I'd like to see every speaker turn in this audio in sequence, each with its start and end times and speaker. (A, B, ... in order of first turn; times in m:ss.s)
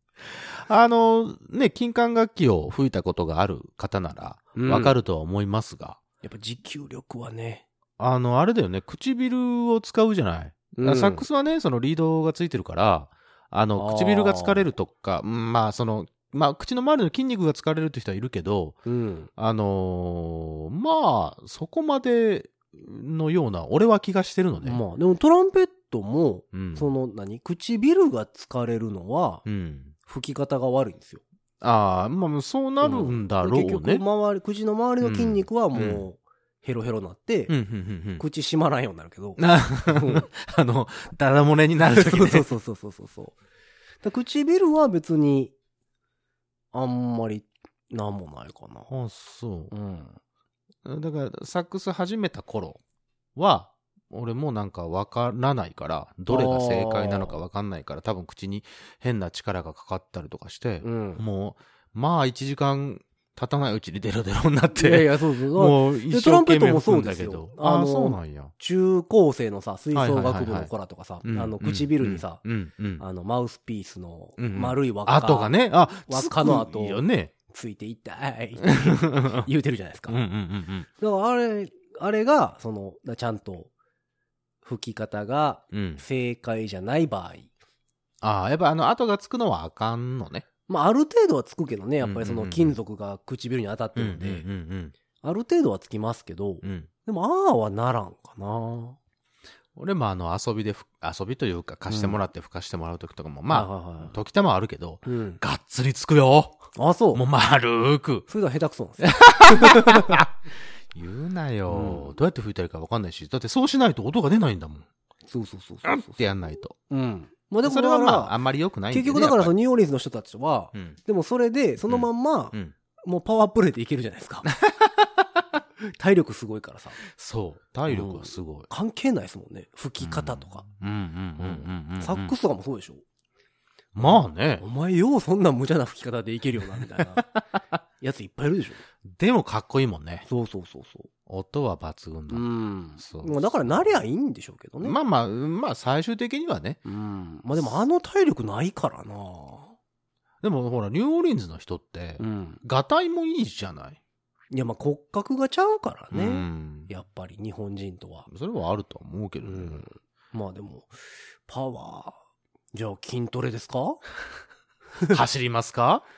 0:00.3-0:06.0 A
0:04.6-0:05.0 B
0:06.2-0:07.7 B
0:08.0-0:18.8 A
0:10.8-0:11.3 B
0:13.8-0:14.7 B
0:18.9-0:19.3 B
0:19.4-0:24.8 A
0:24.6-0:29.4 B
0:26.5-0:26.9 A
0:29.5-0:29.9 A
0:30.1-0:31.2 B
0:31.6-0:34.0 A
0:32.8-0:37.6 B
0:35.0-0:36.0 A
0:37.5-0:38.2 A
0:38.2-0:40.3 B
0:39.4-0:42.5 A
0:41.9-0:43.4 B
0:44.0-0:45.5 B
0:46.7-0:48.9 B
0:48.9-0:49.7 A
0:49.7-0:50.2 B
0:50.8-0:52.8 A
0:53.4-1:08.5 A
0:56.3-0:57.4 B
1:00.8-1:01.2 B
1:04.8-1:12.4 B
1:10.0-1:10.7 A
1:11.2-1:13.0 A
1:13.0-1:15.5 B
1:14.4-1:17.3 A
1:16.1-1:20.2 B
1:18.7-1:19.5 A
1:20.1-1:20.9 A
1:21.0-1:23.7 B
1:24.6-1:27.5 B
1:25.7-1:26.0 A
1:28.2-1:30.5 A
1:30.7-1:34.5 B
1:32.0-1:32.8 A
1:34.0-1:34.9 A
1:35.2-1:39.0 B
1:36.6-1:36.9 A
1:39.8-1:48.3 A
1:41.9-1:42.2 B
1:43.5-1:44.2 B
1:45.0-1:45.4 B
1:46.8-1:47.2 B
1:48.3-1:50.2 B
1:49.0-1:50.3 A
1:50.9-1:54.9 A
1:51.7-1:52.1 B
1:55.3-1:56.2 B
1:55.9-1:56.8 A
1:56.9-1:58.3 B
1:57.6-1:59.5 A
1:58.9-2:04.5 B
2:01.9-2:02.7 A
2:04.6-2:05.1 A
2:06.0-2:07.0 B
2:07.1-2:08.7 A
2:07.9-2:10.6 B
2:10.0-2:12.3 A
2:11.4-2:13.0 B
2:14.0-2:14.6 A
2:14.0-2:17.3 B
2:18.0-2:18.8 B
2:19.1-2:20.3 A
2:20.3-2:21.1 B
2:21.3-2:22.5 A
2:22.3-2:25.0 B
2:23.0-2:24.0 A
2:24.8-2:26.8 A
2:26.8-2:29.7 B
2:30.4-2:34.0 A
2:32.2-2:32.6 B
2:34.5-2:38.3 B
2:36.1-2:36.9 A
2:38.3-2:39.8 A
2:39.4-2:42.2 B
2:42.7-2:44.0 B
2:45.1-2:46.0 A